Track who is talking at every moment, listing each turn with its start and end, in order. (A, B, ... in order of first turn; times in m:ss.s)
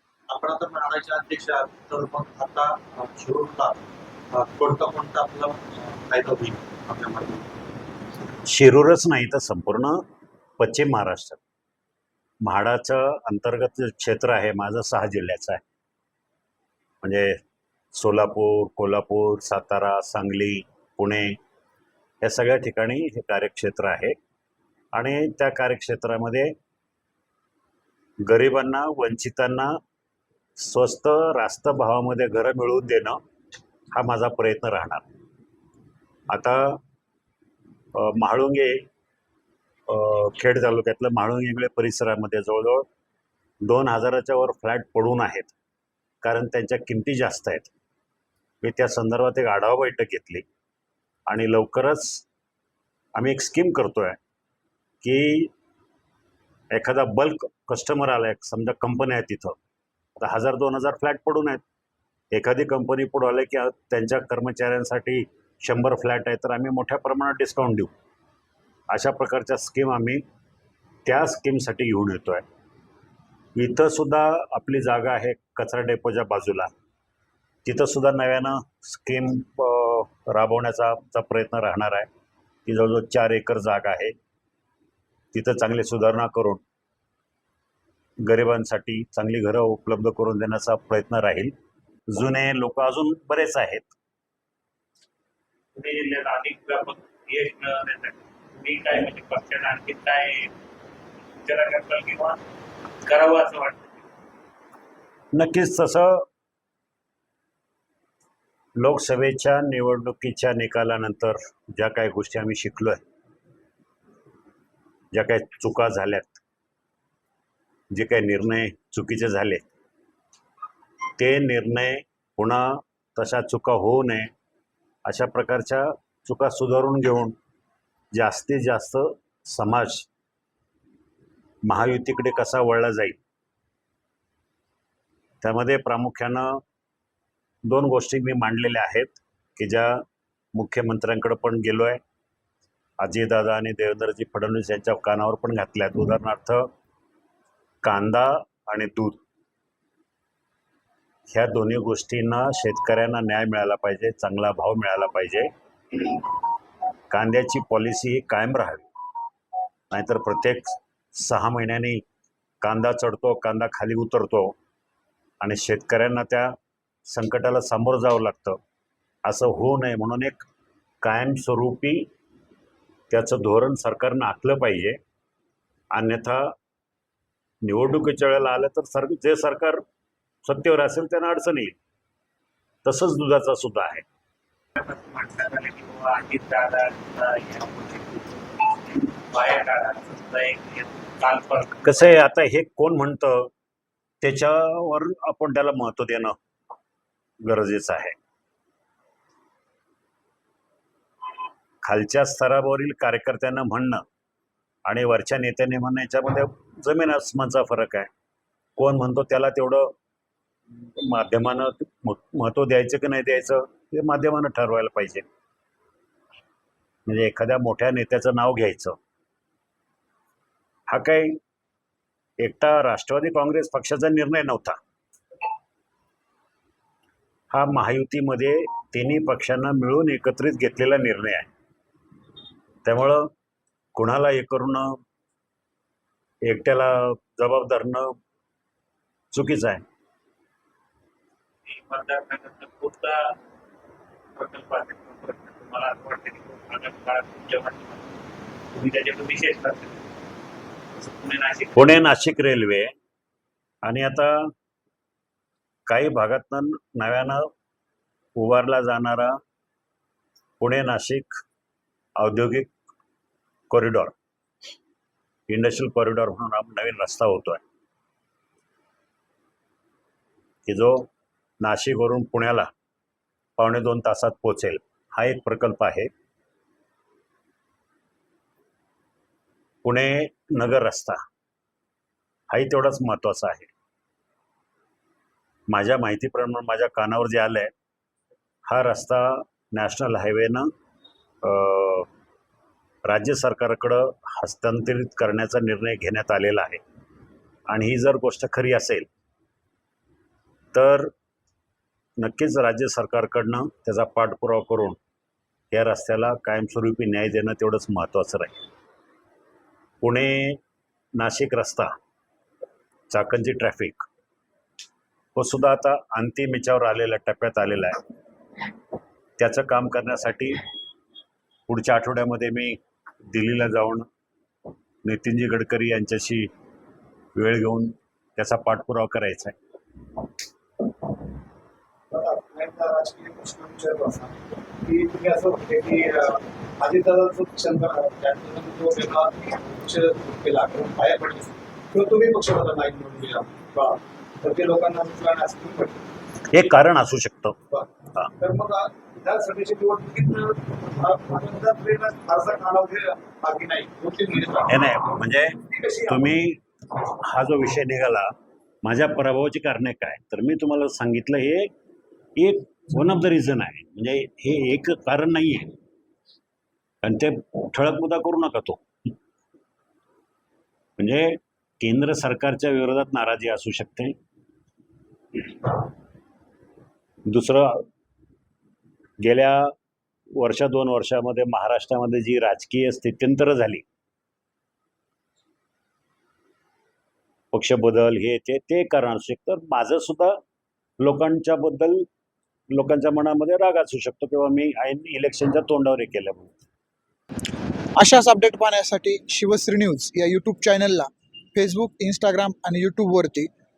0:00.3-0:07.5 A
0:08.5-0:10.0 B
0:10.6-0:11.4 B
0:12.4-0:15.6 B
0:17.0-0:17.4 B
0:18.0-0:21.4 B
0:22.2-0:24.2 B
0:24.9-0:26.5 B
0:28.3-0:29.8 B
0:30.6-0:33.2 B
0:34.0-0:35.0 B
0:36.3-0:36.8 B
0:38.0-0:38.8 B
0:39.9-0:42.9 B
0:43.6-0:45.6 B
0:46.2-0:47.7 B
0:48.6-0:50.4 B
0:51.3-0:52.2 B
0:53.2-0:54.2 B
0:55.0-0:55.5 B
0:56.7-0:59.6 B
1:00.2-1:01.6 B
1:02.3-1:07.9 B
1:08.9-1:10.2 B
1:11.1-1:12.4 B
1:13.6-1:16.7 B
1:17.6-1:22.1 B
1:22.7-1:24.2 B
1:25.3-1:26.6 B
1:28.2-1:31.5 B
1:32.1-1:33.9 B
1:35.8-1:40.5 C
1:41.4-1:42.4 C
1:43.0-1:44.0 C
1:45.4-1:46.2 B
1:48.8-1:53.0 B
1:55.1-1:56.4 B
1:57.9-1:59.7 B
2:01.2-2:04.3 B
2:05.1-2:07.4 B
2:08.1-2:10.1 B
2:11.7-2:13.2 B
2:15.4-2:16.6 B
2:17.7-2:20.0 B
2:20.6-2:22.0 B
2:23.0-2:26.7 B
2:27.8-2:29.2 B
2:31.3-2:36.1 B
2:37.1-2:38.9 B
2:39.9-2:42.0 B
2:42.6-2:44.5 B
2:45.4-2:46.5 B
2:47.1-2:48.6 B
2:49.3-2:50.5 B
2:51.0-2:52.1 B
2:53.1-2:55.0 B
2:55.9-2:56.5 B
2:57.6-2:59.8 B
3:00.4-3:01.8 B
3:02.8-3:04.0 B
3:04.8-3:12.1 C
3:11.8-3:13.5 B
3:14.2-3:16.4 B
3:17.4-3:18.2 B
3:21.8-3:24.0 B
3:24.9-3:28.1 B
3:28.8-3:29.9 B
3:31.0-3:35.2 B
3:37.1-3:39.0 B
3:40.9-3:41.4 B
3:42.4-3:44.8 B
3:47.5-3:51.5 B
3:52.9-3:53.3 B
3:54.0-3:55.0 B
3:56.5-3:58.2 B
3:59.3-3:59.8 B
4:01.7-4:03.4 C
4:04.4-4:08.1 C
4:08.7-4:10.0 C
4:11.0-4:11.9 C
4:11.8-4:12.9 B
4:13.8-4:14.5 B
4:15.9-4:17.5 B
4:18.4-4:19.4 B
4:20.6-4:21.4 B
4:22.2-4:22.7 B
4:23.7-4:24.1 B
4:25.5-4:27.6 B
4:30.7-4:31.1 B
4:31.6-4:32.7 B
4:33.6-4:36.1 B
4:39.8-4:41.2 B
4:42.5-4:43.7 B
4:45.7-4:47.7 B
4:48.7-4:50.7 B
4:51.4-4:52.1 B
4:53.1-4:56.8 B
4:57.7-4:59.1 B
5:00.7-5:01.1 B
5:02.2-5:05.0 B
5:05.7-5:08.6 B
5:10.0-5:10.6 B
5:11.2-5:11.9 B
5:13.1-5:14.1 B
5:15.4-5:18.0 B
5:19.4-5:20.6 B
5:21.7-5:22.8 B
5:23.3-5:24.1 B
5:25.0-5:26.5 B
5:27.4-5:29.6 B
5:32.1-5:46.0 A
5:46.5-5:47.6 B
5:47.7-5:54.8 A
5:54.7-5:56.6 B
5:55.6-5:56.2 A
5:57.2-5:58.3 B
5:58.8-6:01.7 B
6:02.4-6:05.7 B
6:07.0-6:08.8 B
6:11.0-6:14.2 B
6:17.3-6:17.8 B
6:19.2-6:19.7 B
6:20.4-6:23.8 B
6:27.5-6:30.4 B
6:31.0-6:32.1 B
6:32.7-6:36.5 B
6:38.0-6:43.5 D